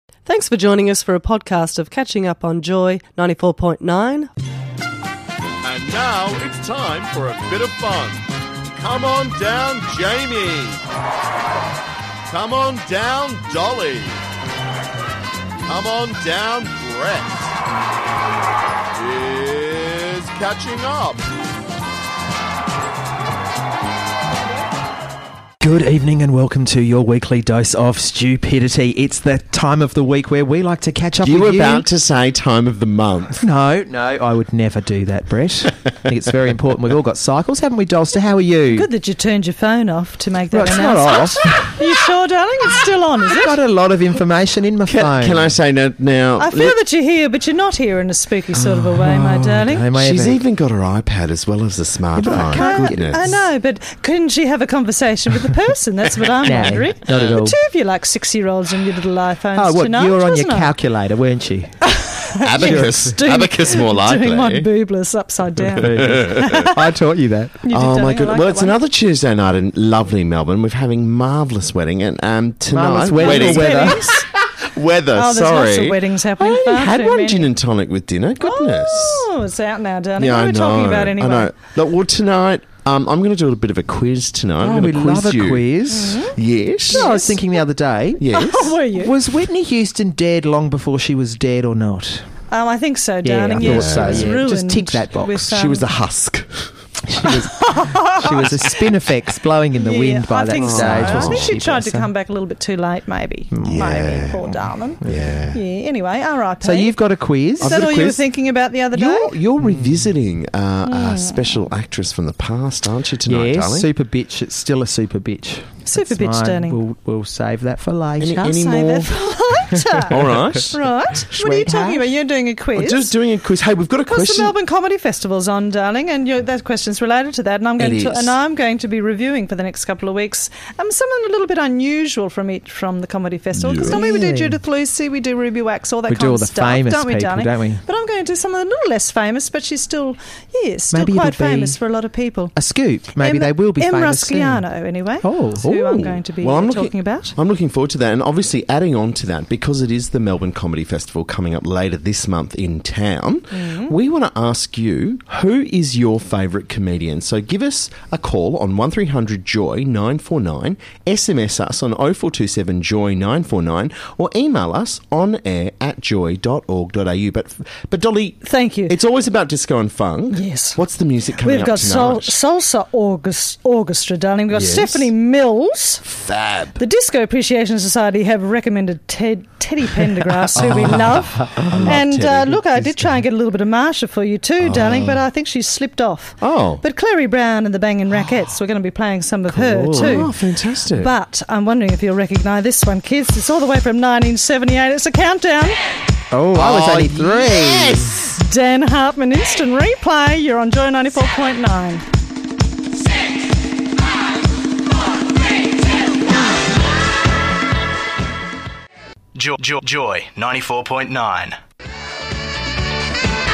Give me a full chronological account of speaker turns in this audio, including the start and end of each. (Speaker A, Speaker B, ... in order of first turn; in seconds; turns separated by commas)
Speaker A: 0.2-4.3, Speaker B: 5.6-10.8, Speaker B: 12.3-14.2, Speaker B: 15.7-17.5, Speaker B: 18.9-21.2, Speaker C: 25.6-31.9, Speaker B: 31.2-33.4, Speaker C: 33.4-38.9, Speaker D: 38.7-43.5, Speaker C: 40.5-41.8, Speaker C: 43.3-45.5, Speaker B: 44.9-46.8, Speaker D: 46.4-49.8, Speaker B: 48.5-53.3, Speaker C: 49.5-50.4, Speaker C: 52.1-53.4, Speaker D: 52.3-60.7, Speaker C: 56.4-57.6, Speaker B: 56.4-57.4, Speaker C: 59.5-61.9, Speaker D: 61.9-66.9, Speaker B: 62.4-64.7, Speaker C: 62.6-63.2, Speaker C: 65.6-67.6, Speaker B: 65.8-66.7, Speaker D: 67.6-68.8, Speaker B: 67.7-79.2, Speaker C: 72.7-74.1, Speaker D: 73.1-74.0, Speaker D: 75.1-77.5, Speaker D: 78.4-81.5, Speaker B: 80.2-85.7, Speaker C: 84.6-86.3, Speaker D: 85.9-86.3, Speaker B: 86.3-87.0, Speaker D: 86.9-87.4, Speaker C: 86.9-92.3, Speaker B: 88.2-88.8, Speaker D: 88.3-89.1, Speaker D: 92.5-95.8, Speaker C: 93.2-95.6, Speaker B: 93.6-94.3, Speaker B: 95.5-97.5, Speaker C: 97.1-102.1, Speaker D: 97.6-98.3, Speaker B: 98.2-98.9, Speaker D: 99.8-107.0, Speaker B: 100.5-101.5, Speaker C: 103.5-104.0, Speaker B: 103.6-105.6, Speaker C: 105.0-105.3, Speaker C: 106.6-108.0, Speaker B: 107.6-108.2, Speaker D: 107.6-109.3, Speaker B: 108.9-113.9, Speaker C: 109.6-110.1, Speaker D: 110.9-111.6, Speaker C: 113.2-118.8, Speaker D: 115.8-116.8, Speaker B: 118.2-119.2, Speaker D: 118.5-123.1, Speaker B: 120.1-120.8, Speaker C: 120.1-120.6, Speaker C: 121.3-122.1, Speaker B: 122.7-124.5, Speaker D: 124.1-142.5, Speaker B: 127.8-128.3, Speaker B: 133.5-134.0, Speaker C: 133.8-134.6, Speaker C: 136.1-137.8, Speaker C: 140.9-141.8, Speaker C: 142.5-144.7, Speaker D: 143.2-147.3, Speaker C: 145.2-145.8, Speaker B: 145.7-172.3, Speaker D: 153.5-153.9, Speaker D: 168.4-168.9, Speaker D: 170.3-170.8, Speaker D: 171.4-176.0, Speaker B: 174.5-175.1, Speaker B: 176.0-176.8, Speaker D: 176.8-190.3, Speaker B: 180.5-182.7, Speaker C: 180.6-182.0, Speaker B: 184.6-185.2, Speaker B: 186.4-186.8, Speaker C: 189.5-190.3, Speaker B: 189.9-191.1, Speaker D: 190.9-195.8, Speaker C: 196.3-198.1, Speaker B: 196.5-198.4, Speaker D: 198.3-202.0, Speaker E: 209.3-211.6